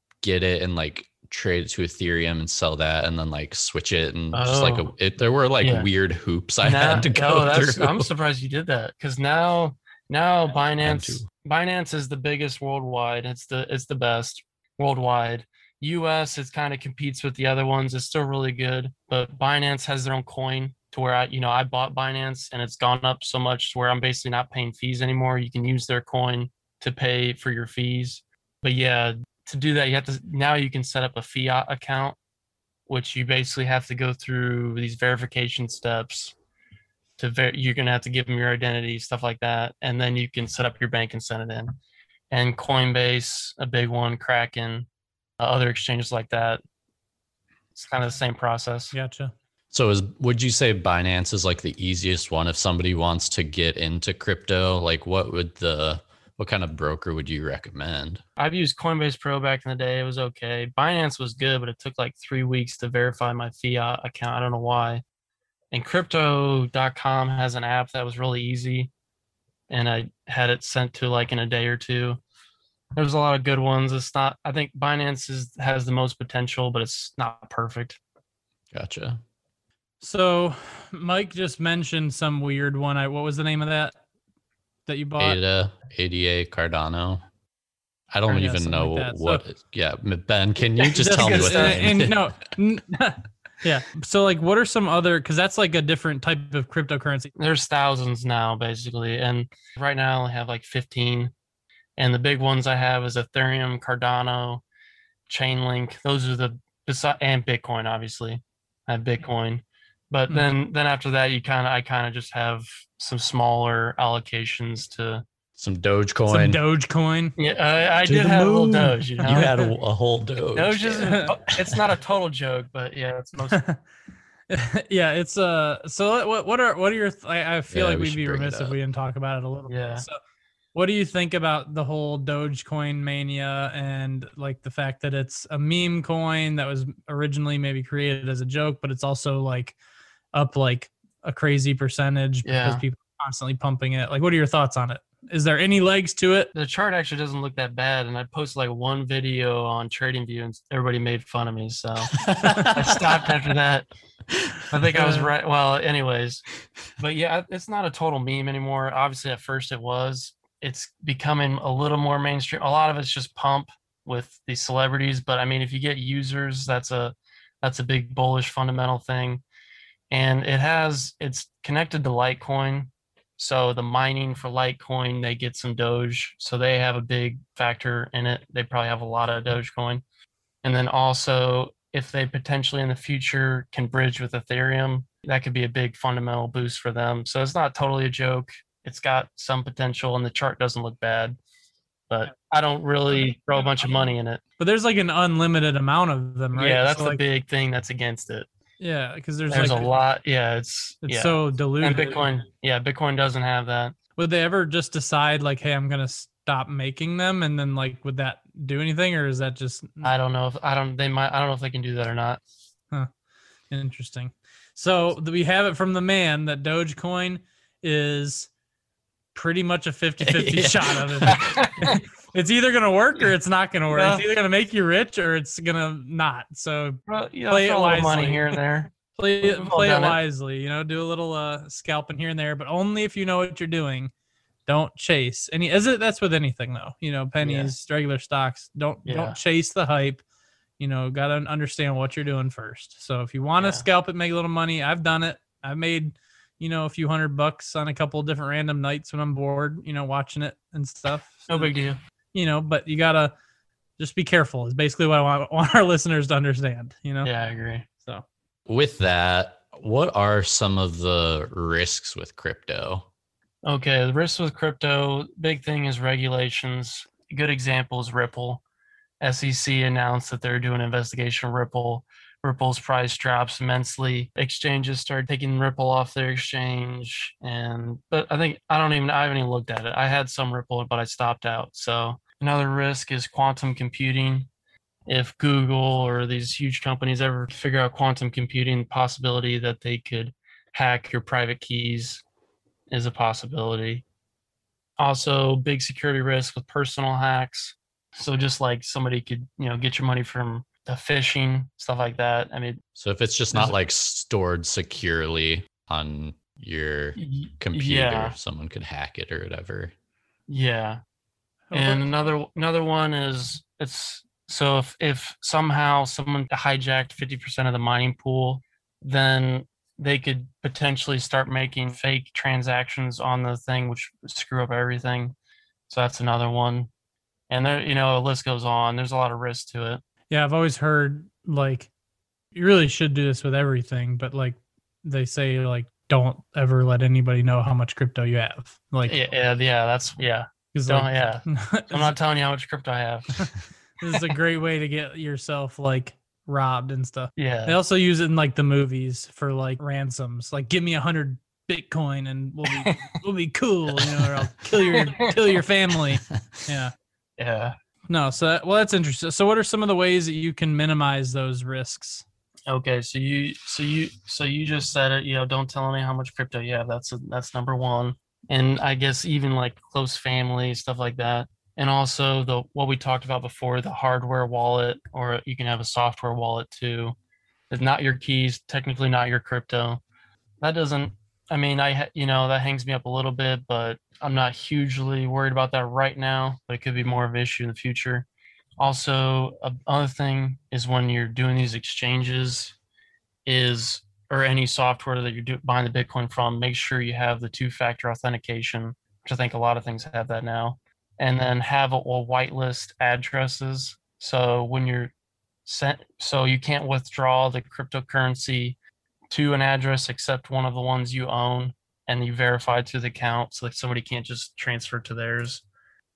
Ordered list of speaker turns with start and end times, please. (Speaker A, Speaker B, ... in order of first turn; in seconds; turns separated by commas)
Speaker A: 0.2-8.1, Speaker B: 4.3-4.9, Speaker B: 5.6-5.9, Speaker B: 6.6-32.2, Speaker A: 10.8-11.3, Speaker B: 32.9-36.4, Speaker B: 37.2-41.7, Speaker B: 42.3-44.9, Speaker B: 45.4-46.6, Speaker B: 47.8-48.9, Speaker C: 48.9-49.3, Speaker A: 49.7-58.2, Speaker B: 58.4-65.0, Speaker B: 65.7-68.9, Speaker B: 69.7-72.2, Speaker B: 73.0-78.0, Speaker A: 78.7-79.2, Speaker C: 80.0-84.0, Speaker C: 84.9-85.4, Speaker A: 85.2-87.2, Speaker A: 88.1-92.2, Speaker C: 88.3-89.4, Speaker B: 90.8-91.9, Speaker C: 91.0-97.3, Speaker B: 97.4-101.3, Speaker B: 102.0-104.6, Speaker B: 105.3-115.2, Speaker A: 115.6-116.6, Speaker C: 116.3-117.3, Speaker B: 117.4-119.6, Speaker C: 118.1-119.7, Speaker A: 119.2-121.8, Speaker B: 120.5-123.6, Speaker C: 121.1-121.3, Speaker C: 123.5-123.8, Speaker C: 124.5-130.2, Speaker A: 127.7-128.8, Speaker B: 129.7-130.1, Speaker C: 130.7-139.8, Speaker C: 140.3-146.5, Speaker B: 142.4-142.8, Speaker B: 146.6-152.2, Speaker A: 152.1-153.0, Speaker C: 152.4-152.8, Speaker B: 152.7-153.9, Speaker A: 154.3-154.6, Speaker B: 154.7-169.4, Speaker C: 154.9-155.3, Speaker B: 170.1-180.0, Speaker B: 180.6-191.4, Speaker B: 192.1-194.4, Speaker C: 194.6-197.2, Speaker B: 196.6-198.5, Speaker C: 198.8-199.9, Speaker B: 199.5-203.9, Speaker C: 201.1-202.2, Speaker C: 204.2-210.1, Speaker B: 210.0-212.4, Speaker C: 213.7-218.5, Speaker C: 219.3-228.6, Speaker A: 220.2-221.7, Speaker B: 221.3-221.9, Speaker B: 223.9-224.2, Speaker B: 227.1-230.2, Speaker C: 229.1-234.1, Speaker C: 234.7-240.2, Speaker B: 237.4-237.7, Speaker B: 239.1-239.4, Speaker C: 240.8-251.7, Speaker B: 243.6-243.8, Speaker B: 251.5-252.0, Speaker C: 252.3-253.3, Speaker C: 254.0-257.3, Speaker B: 257.2-257.9, Speaker A: 258.7-263.1, Speaker B: 263.6-268.6, Speaker B: 269.2-284.5, Speaker B: 285.1-292.2, Speaker B: 292.9-294.1, Speaker B: 295.0-302.8, Speaker A: 303.0-309.9, Speaker B: 307.2-308.4, Speaker B: 310.5-311.0, Speaker C: 311.7-312.1, Speaker B: 311.7-325.4, Speaker B: 325.9-326.9, Speaker B: 327.5-330.0, Speaker C: 330.3-331.9, Speaker C: 332.5-339.2, Speaker B: 339.1-343.3, Speaker C: 340.7-342.2, Speaker C: 343.4-356.9, Speaker B: 347.4-347.8, Speaker B: 352.8-353.1, Speaker B: 354.9-355.3, Speaker A: 356.1-356.5, Speaker B: 357.4-357.8, Speaker C: 358.1-362.2, Speaker B: 362.7-377.1, Speaker B: 377.7-380.0, Speaker B: 380.6-388.3, Speaker B: 388.8-392.8, Speaker B: 393.5-405.1, Speaker B: 405.7-408.8, Speaker B: 409.3-415.6